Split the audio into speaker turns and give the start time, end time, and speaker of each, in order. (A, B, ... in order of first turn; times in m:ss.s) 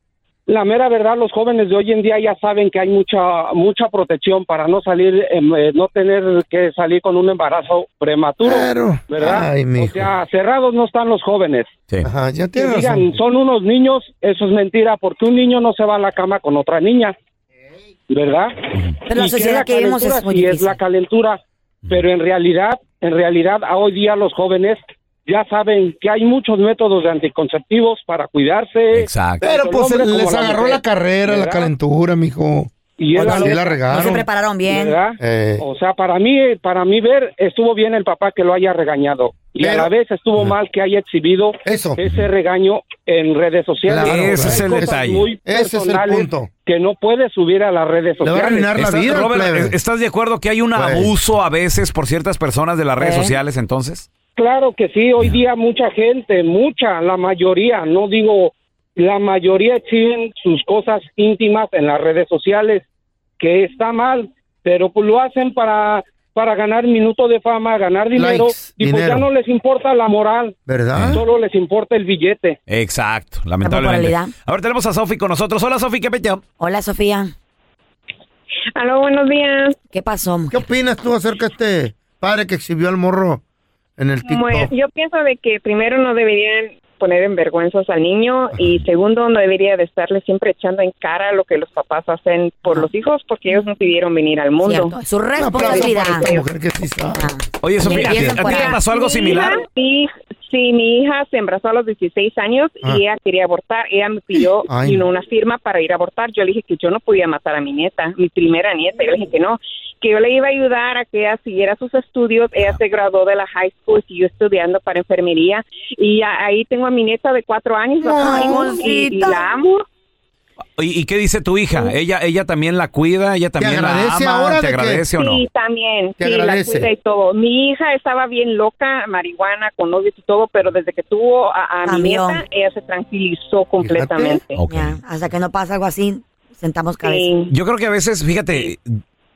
0:00.5-0:11.7 A
0:08.4-0:10.1 B
0:12.0-0:13.2 B
0:12.6-0:17.1 A
0:18.1-0:31.7 A
0:19.1-0:20.8 C
0:28.9-0:29.4 D
0:29.4-0:34.2 B
0:33.0-0:33.8 A
0:33.2-0:35.0 C
0:34.7-0:48.7 A
0:35.2-0:35.6 B
0:39.6-0:40.6 B
0:41.6-0:42.0 B
0:43.8-0:44.9 B
0:44.0-0:45.3 D
0:45.4-0:46.5 B
0:48.2-0:49.7 B
0:48.7-0:54.1 D
0:50.7-0:51.1 B
0:53.0-0:53.3 C
0:54.4-1:02.8 A
1:03.4-1:10.6 A
1:08.2-1:09.3 B
1:10.7-1:11.2 B
1:11.0-1:11.2 D
1:11.1-1:12.6 A
1:12.7-1:16.4 D
1:13.6-1:14.3 C
1:16.6-1:17.3 C
1:18.7-1:19.8 E
1:19.9-1:20.6 C
1:20.5-1:23.4 B
1:24.0-1:24.7 B
1:24.3-1:34.9 E
1:34.6-1:36.3 C
1:35.4-1:37.3 B
1:35.6-1:36.4 E
1:37.1-1:38.8 C
1:37.6-1:39.6 D
1:37.8-1:38.4 B
1:37.9-1:59.8 E
1:44.7-1:45.1 B
1:58.0-1:58.8 B
1:58.0-1:59.4 C
2:00.8-2:05.4 D
2:03.6-2:05.0 B
2:05.2-2:14.6 E
2:06.2-2:06.9 B
2:11.8-2:12.4 C
2:13.8-2:14.4 B
2:14.6-2:15.0 D
2:14.7-2:17.3 C
2:17.0-2:17.5 E
2:17.5-2:19.0 D